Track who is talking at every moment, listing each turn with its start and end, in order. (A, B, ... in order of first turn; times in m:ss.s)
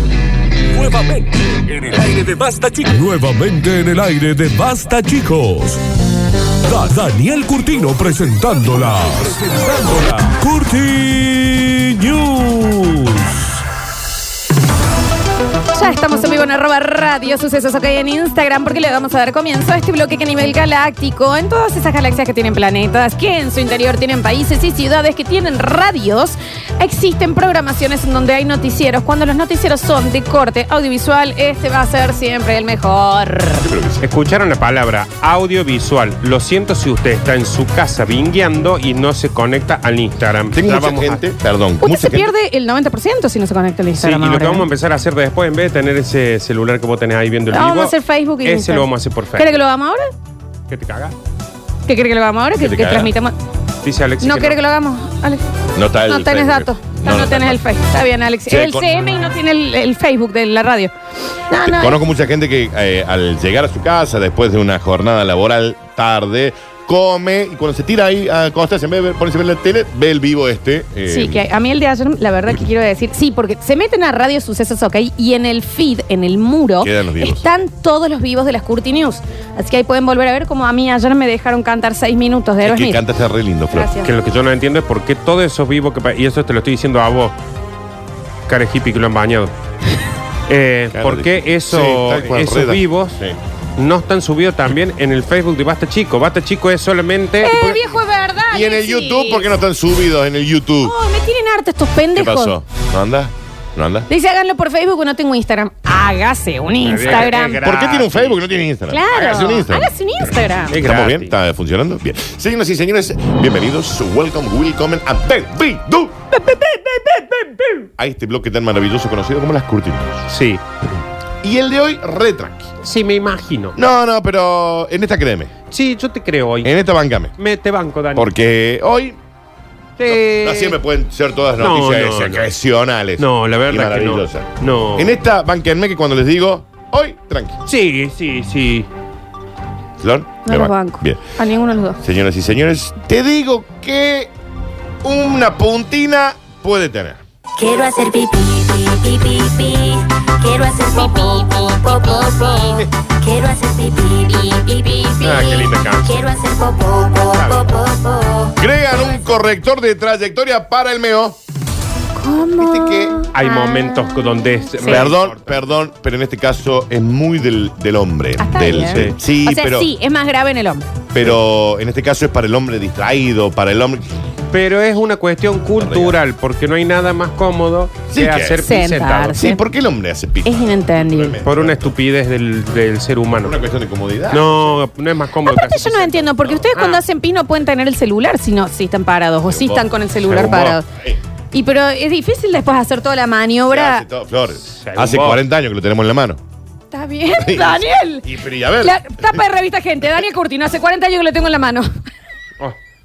0:00.6-0:05.8 A
0:06.6-0:13.5 A
0:15.7-0:33.7 B
0:33.6-0:34.0 C
0:34.0-0:41.2 D
0:40.5-0:42.3 C
0:41.8-0:44.7 B
0:44.0-0:49.6 D
0:47.5-0:50.1 B
0:50.7-0:51.2 D
0:51.9-0:53.3 B
0:52.6-0:53.1 C
0:53.8-0:54.6 D
0:54.2-0:55.5 B
0:55.7-0:57.6 C
0:56.1-1:00.9 B
0:58.5-0:58.9 C
1:01.5-1:02.0 B
1:01.6-1:11.4 C
1:11.1-1:23.0 B
1:16.8-1:17.4 C
1:22.6-1:23.9 C
1:23.7-1:24.1 B
1:24.0-1:27.3 D
1:28.5-1:29.5 D
1:30.5-1:33.2 D
1:30.9-1:33.4 C
1:33.8-1:37.6 D
1:37.4-1:39.5 B
1:38.5-1:40.9 C
1:40.8-1:42.6 B
1:42.1-1:44.1 C
1:44.1-1:47.6 B
1:46.8-1:48.4 D
1:47.6-1:49.9 C
1:48.9-1:50.8 B
1:50.7-1:51.3 D
1:50.7-1:56.2 C
1:56.4-1:57.0 B
1:56.9-1:57.8 D
1:58.0-2:00.3 C
2:00.3-2:00.6 D
2:01.4-2:02.7 C
2:02.8-2:03.8 D
2:03.8-2:05.5 C
2:05.7-2:06.7 D
2:06.6-2:07.3 C
2:07.4-2:08.3 D
2:08.1-2:09.2 C
2:10.0-2:10.7 D
2:10.1-2:17.6 C
2:11.6-2:12.5 D
2:13.2-2:15.1 D
2:17.6-2:18.9 D
2:20.0-2:21.2 C
2:20.4-2:22.0 B
2:22.0-2:24.3 C
2:25.0-2:27.2 C
2:27.6-2:32.6 E
2:27.9-2:28.2 B
2:29.0-2:29.8 B
2:30.4-2:35.6 B
2:33.2-2:37.1 E
2:35.2-2:36.3 D
2:36.1-2:38.5 B
2:37.4-2:37.7 C
2:37.8-2:38.2 E
2:38.5-2:41.4 C
2:42.2-2:45.1 B
2:42.6-2:43.2 C
2:43.3-2:45.5 D
2:44.8-2:49.9 C
2:48.4-2:50.9 B
2:51.1-2:54.2 C
2:54.5-2:59.4 D
2:55.8-2:56.2 C
2:58.1-2:58.7 C
2:58.6-2:59.6 B
2:59.3-3:02.0 C
3:00.4-3:01.4 B
3:01.4-3:03.6 D
3:03.4-3:04.8 C
3:04.3-3:07.0 D
3:05.4-3:10.8 B
3:09.5-3:11.2 C
3:10.2-3:10.8 D
3:11.5-3:14.0 B
3:13.7-3:16.4 C
3:14.6-3:15.4 D
3:16.9-3:21.9 B
3:17.4-3:19.4 C